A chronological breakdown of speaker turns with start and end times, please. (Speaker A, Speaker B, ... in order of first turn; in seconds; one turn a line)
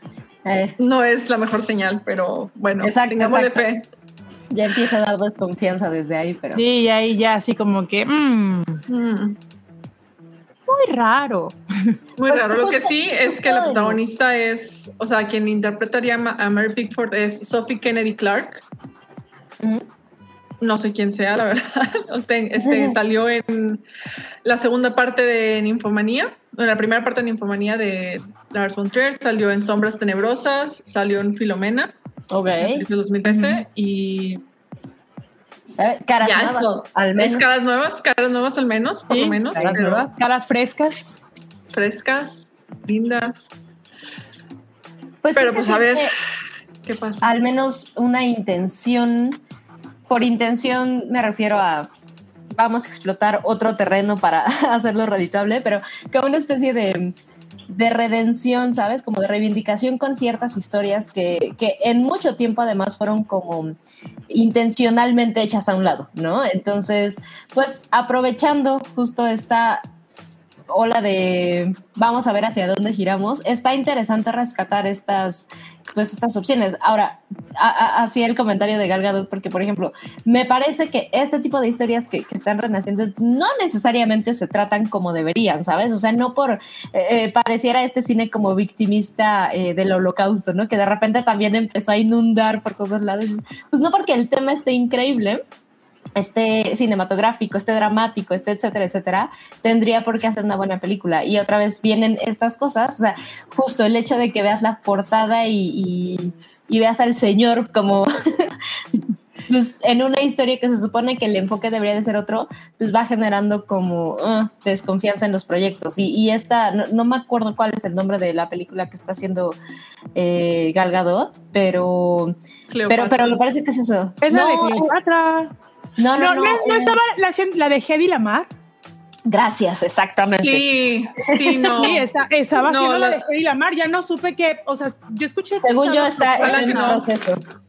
Speaker A: 0.5-0.8
Speaker B: 0.8-3.9
Speaker A: 2.8-3.7
Speaker A: 4.5-6.6
Speaker C: 6.5-8.8
Speaker B: 8.9-9.4
Speaker C: 10.7-12.0
Speaker B: 12.2-18.6
Speaker A: 12.3-14.0
Speaker A: 19.6-19.9
Speaker B: 20.6-23.8
Speaker A: 22.6-23.0
Speaker B: 24.4-31.9
Speaker A: 32.3-32.8
Speaker B: 32.6-34.4
Speaker C: 33.3-33.6
Speaker A: 35.8-37.5
Speaker B: 36.2-40.1
Speaker C: 39.1-41.2
Speaker A: 39.5-39.9
Speaker B: 41.7-43.4
Speaker A: 45.2-46.1
Speaker B: 45.4-46.2
Speaker B: 46.9-47.4
Speaker A: 47.2-49.4
Speaker A: 50.1-51.9
Speaker A: 52.5-57.1
Speaker A: 57.7-63.8
Speaker A: 64.3-69.8
Speaker A: 70.7-95.4
Speaker A: 96.2-108.6
Speaker A: 109.5-119.6
Speaker A: 120.2-122.4
Speaker B: 122.7-123.4
Speaker A: 122.9-124.9
Speaker C: 124.2-125.5
Speaker A: 126.0-127.0
Speaker C: 126.2-128.5
Speaker A: 129.3-130.7
Speaker B: 130.4-133.2
Speaker A: 131.3-131.8
Speaker C: 131.8-137.0
Speaker A: 135.6-137.4
Speaker B: 136.4-137.1